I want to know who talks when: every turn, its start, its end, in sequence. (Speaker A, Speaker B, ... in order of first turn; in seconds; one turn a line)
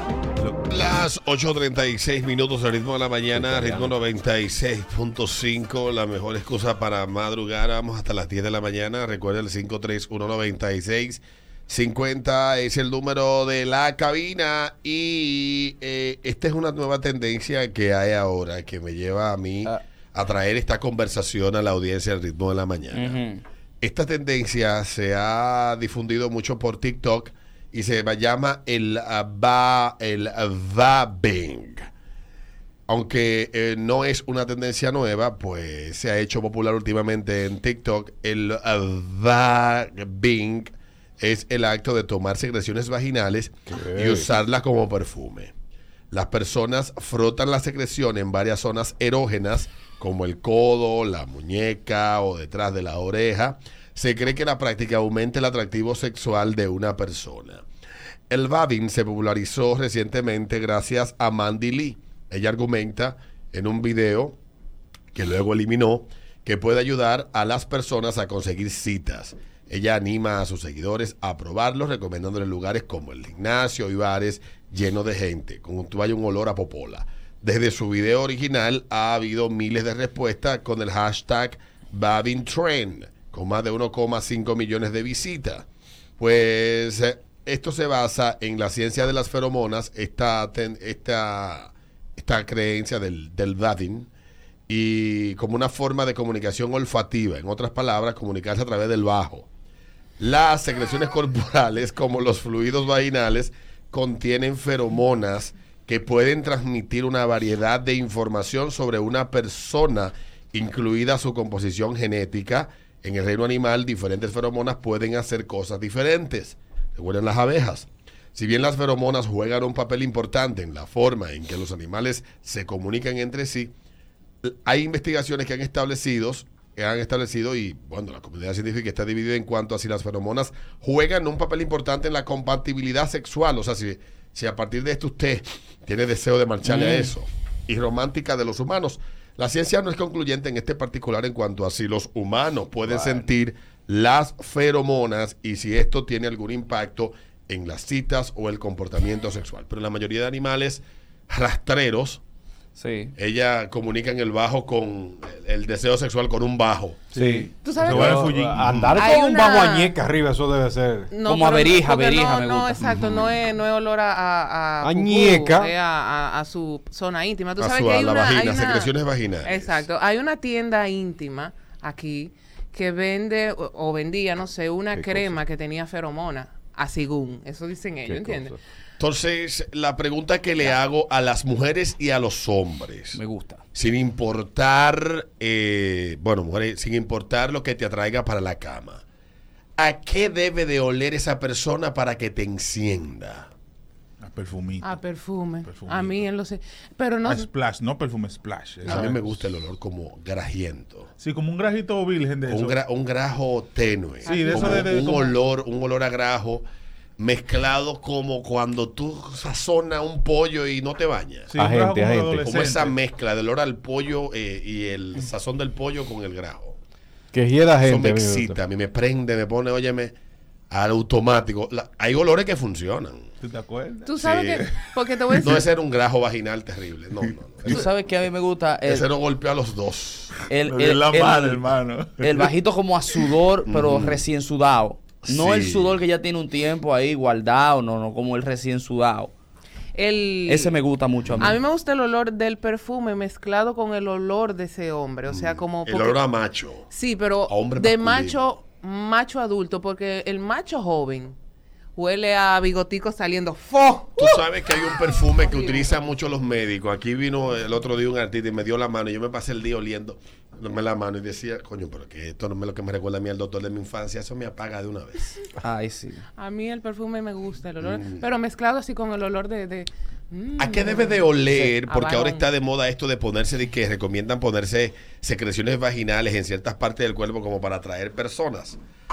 Speaker A: 0.4-0.7
Speaker B: 0.7-23.2
Speaker C: 22.9-23.4
Speaker B: 23.8-31.9
Speaker B: 32.9-45.5
Speaker D: 43.7-44.3
Speaker B: 46.1-57.6
Speaker B: 58.3-64.4
Speaker B: 65.1-85.7
Speaker B: 86.2-94.1
Speaker B: 94.7-99.5
Speaker B: 100.2-123.7
Speaker B: 124.4-152.2
Speaker C: 136.6-137.1
Speaker C: 142.9-143.2
Speaker C: 152.8-153.1
Speaker B: 153.2-157.0
Speaker D: 157.1-161.1
Speaker C: 157.1-157.5
Speaker E: 157.6-158.3
Speaker A: 157.8-158.8
Speaker B: 158.7-158.9
Speaker E: 158.9-159.9
Speaker E: 161.1-168.9
Speaker C: 161.2-162.8
Speaker B: 162.8-163.3
Speaker D: 164.8-165.7
Speaker B: 167.6-169.8
Speaker E: 169.4-178.5
Speaker D: 174.9-175.4
Speaker D: 178.0-178.6
Speaker B: 179.0-183.2
Speaker C: 183.1-183.6
Speaker B: 183.7-189.0
Speaker B: 189.8-193.5
Speaker A: 194.2-195.0
Speaker E: 194.8-197.5
Speaker A: 195.6-196.3
Speaker A: 197.2-199.4
Speaker E: 198.8-199.1
Speaker B: 198.8-201.1
Speaker A: 201.2-202.8
Speaker B: 202.5-206.6
Speaker E: 204.2-205.3
Speaker A: 204.2-205.3
Speaker B: 207.2-211.5
Speaker A: 211.5-212.9
Speaker D: 211.6-212.4
Speaker B: 212.4-216.8
Speaker D: 217.3-218.6
Speaker B: 217.8-220.1
Speaker B: 220.7-223.3
Speaker A: 223.4-225.4
Speaker E: 224.0-225.6
Speaker B: 224.2-224.6
Speaker B: 225.4-227.8
Speaker C: 227.7-229.1
Speaker B: 228.8-230.3
Speaker C: 230.5-239.3
Speaker A: 230.7-232.4
Speaker B: 233.7-234.2
Speaker B: 235.2-236.0
Speaker E: 239.9-240.8
Speaker C: 240.4-241.6
Speaker E: 241.4-246.2
Speaker B: 245.3-246.9
Speaker E: 246.9-251.3
Speaker B: 247.5-248.6
Speaker E: 251.9-255.9
Speaker B: 254.2-265.4
Speaker C: 265.6-266.2
Speaker E: 266.4-272.4
Speaker B: 267.8-268.3
Speaker B: 270.6-278.8